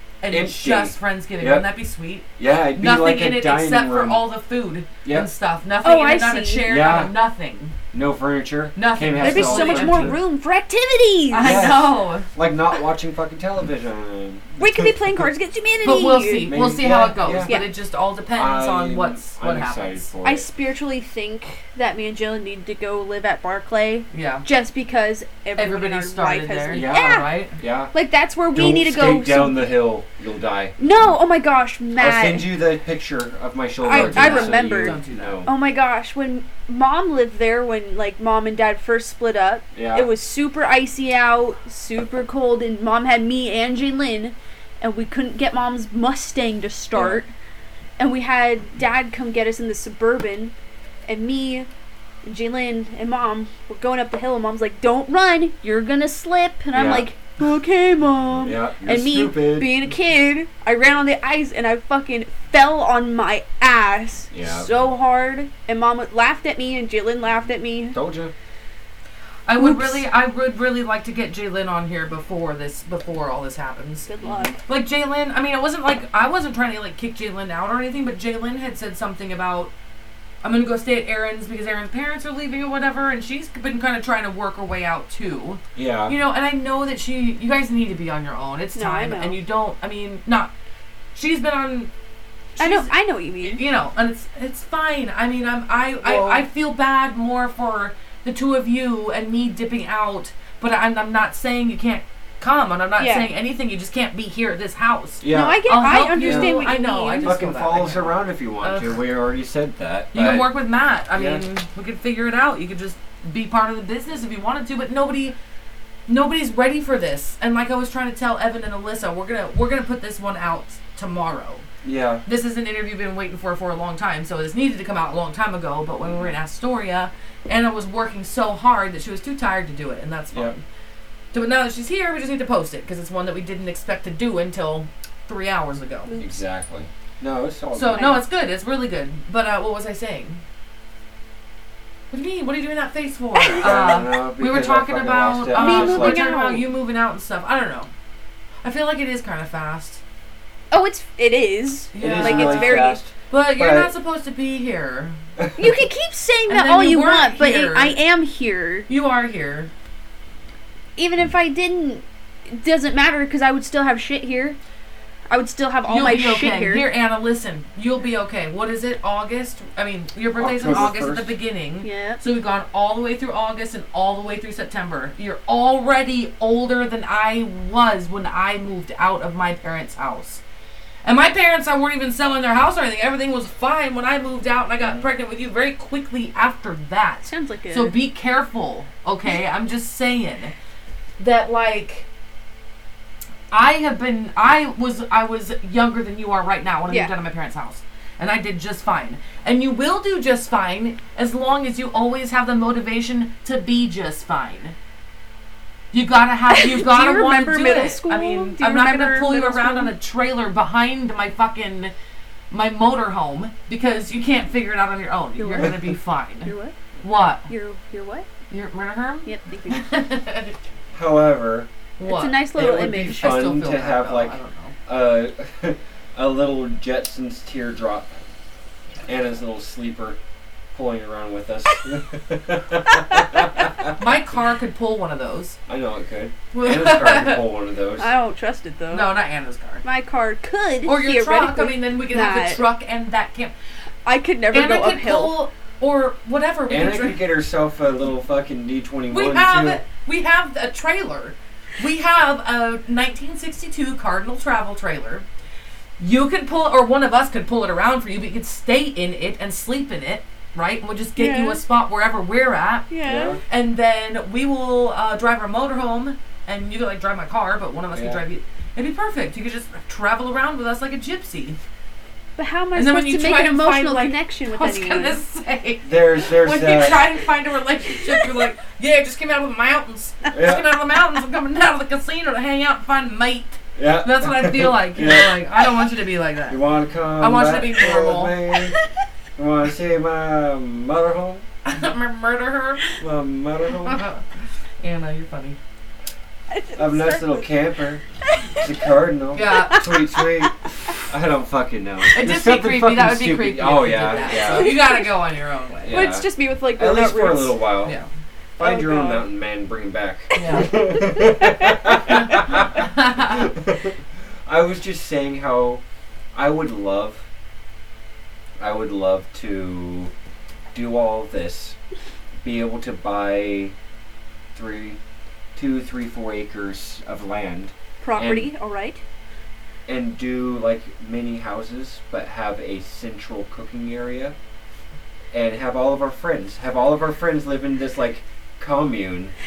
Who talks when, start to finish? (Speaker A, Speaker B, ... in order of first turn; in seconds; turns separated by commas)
Speaker A: 0.2-7.8, Speaker B: 0.3-1.6, Speaker B: 2.4-4.2, Speaker C: 5.8-6.7, Speaker B: 6.6-7.1, Speaker B: 7.9-10.2, Speaker A: 8.8-10.2, Speaker C: 9.2-11.9, Speaker A: 11.3-12.3, Speaker B: 11.4-15.3, Speaker C: 14.6-16.5, Speaker A: 15.8-20.1, Speaker B: 16.4-17.6, Speaker B: 18.3-20.5, Speaker C: 20.2-27.3, Speaker A: 24.1-24.5, Speaker A: 25.6-27.6, Speaker B: 26.7-27.9, Speaker C: 27.9-29.8, Speaker B: 28.5-31.1, Speaker C: 30.8-32.5, Speaker B: 31.9-35.5, Speaker C: 33.8-47.3, Speaker A: 33.9-35.4, Speaker B: 39.7-40.1, Speaker B: 46.9-47.2, Speaker C: 48.0-50.5, Speaker C: 51.1-51.7, Speaker C: 52.2-68.0, Speaker B: 56.7-57.1, Speaker B: 58.4-59.9, Speaker B: 64.3-64.7, Speaker B: 67.9-68.3, Speaker A: 69.5-74.1, Speaker C: 69.6-70.0, Speaker C: 74.1-74.6, Speaker B: 74.2-74.5, Speaker A: 74.6-79.7, Speaker A: 80.4-90.5, Speaker B: 85.7-86.2, Speaker C: 88.7-89.4, Speaker A: 91.1-91.9, Speaker A: 92.5-92.9, Speaker C: 92.6-93.6, Speaker A: 93.4-109.0, Speaker B: 96.0-96.5, Speaker C: 103.0-103.3, Speaker B: 105.2-110.5, Speaker C: 105.3-107.5, Speaker A: 110.1-115.3, Speaker B: 111.1-111.4, Speaker A: 116.1-121.7, Speaker B: 121.8-122.2, Speaker A: 122.2-130.6, Speaker B: 126.0-126.3, Speaker A: 131.3-136.1, Speaker C: 136.1-136.4, Speaker B: 136.2-138.2, Speaker A: 137.7-140.4, Speaker C: 137.9-138.2, Speaker A: 142.1-147.9, Speaker C: 143.3-144.1, Speaker B: 143.6-146.2, Speaker C: 145.5-146.7, Speaker A: 148.6-150.0, Speaker C: 150.7-153.0, Speaker A: 151.9-155.2, Speaker B: 151.9-153.9, Speaker B: 155.4-155.9, Speaker C: 155.6-158.9, Speaker A: 156.5-158.0, Speaker A: 158.9-159.7, Speaker C: 161.0-164.6, Speaker C: 165.3-166.9, Speaker A: 165.9-180.4, Speaker B: 170.4-171.4, Speaker C: 171.8-172.2, Speaker A: 181.0-190.5, Speaker B: 184.8-185.1, Speaker C: 187.2-187.9, Speaker A: 191.2-192.1, Speaker A: 193.5-204.8, Speaker A: 205.9-211.9, Speaker C: 206.5-209.9, Speaker A: 212.5-217.5, Speaker C: 215.4-215.9, Speaker C: 216.4-216.7, Speaker C: 217.5-218.3, Speaker A: 218.5-220.5, Speaker C: 219.2-219.8, Speaker B: 220.9-221.7, Speaker A: 222.0-224.7, Speaker C: 222.1-223.3, Speaker B: 222.5-228.1, Speaker B: 229.1-230.2, Speaker B: 230.7-234.0, Speaker C: 232.9-233.2, Speaker A: 233.9-235.6, Speaker B: 235.7-238.1, Speaker A: 236.5-237.4, Speaker C: 238.0-239.1, Speaker A: 238.9-239.8, Speaker C: 239.8-242.6, Speaker A: 240.8-243.5, Speaker C: 244.0-245.4, Speaker A: 244.5-247.2, Speaker B: 246.7-249.8, Speaker A: 249.1-255.2, Speaker A: 256.0-262.9, Speaker C: 261.1-261.6, Speaker C: 262.9-263.4, Speaker B: 263.0-263.4, Speaker A: 263.4-271.6, Speaker B: 267.9-268.2, Speaker C: 272.4-275.2, Speaker A: 272.7-286.6, Speaker B: 275.8-277.1, Speaker C: 278.0-278.3, Speaker B: 280.3-280.6, Speaker B: 283.8-285.4, Speaker B: 286.5-288.8, Speaker A: 287.2-288.4, Speaker B: 289.4-291.4, Speaker A: 291.6-293.0, Speaker B: 293.0-294.0, Speaker A: 293.8-294.2, Speaker A: 294.8-295.6, Speaker C: 296.5-297.6, Speaker B: 296.7-298.0, Speaker C: 298.3-298.7, Speaker B: 298.6-304.8, Speaker A: 299.3-299.9, Speaker C: 299.6-300.5, Speaker A: 302.1-306.0, Speaker C: 304.2-305.1, Speaker B: 305.8-308.0, Speaker C: 305.9-307.6, Speaker B: 308.6-315.8, Speaker C: 308.6-309.3, Speaker C: 310.3-312.0, Speaker A: 310.3-310.7, Speaker A: 312.1-313.5, Speaker B: 316.3-317.2, Speaker B: 318.6-320.1, Speaker B: 320.7-321.8, Speaker B: 322.4-323.7, Speaker B: 324.5-325.0, Speaker B: 325.5-328.5, Speaker C: 328.0-329.0, Speaker B: 329.9-334.4, Speaker B: 335.3-339.3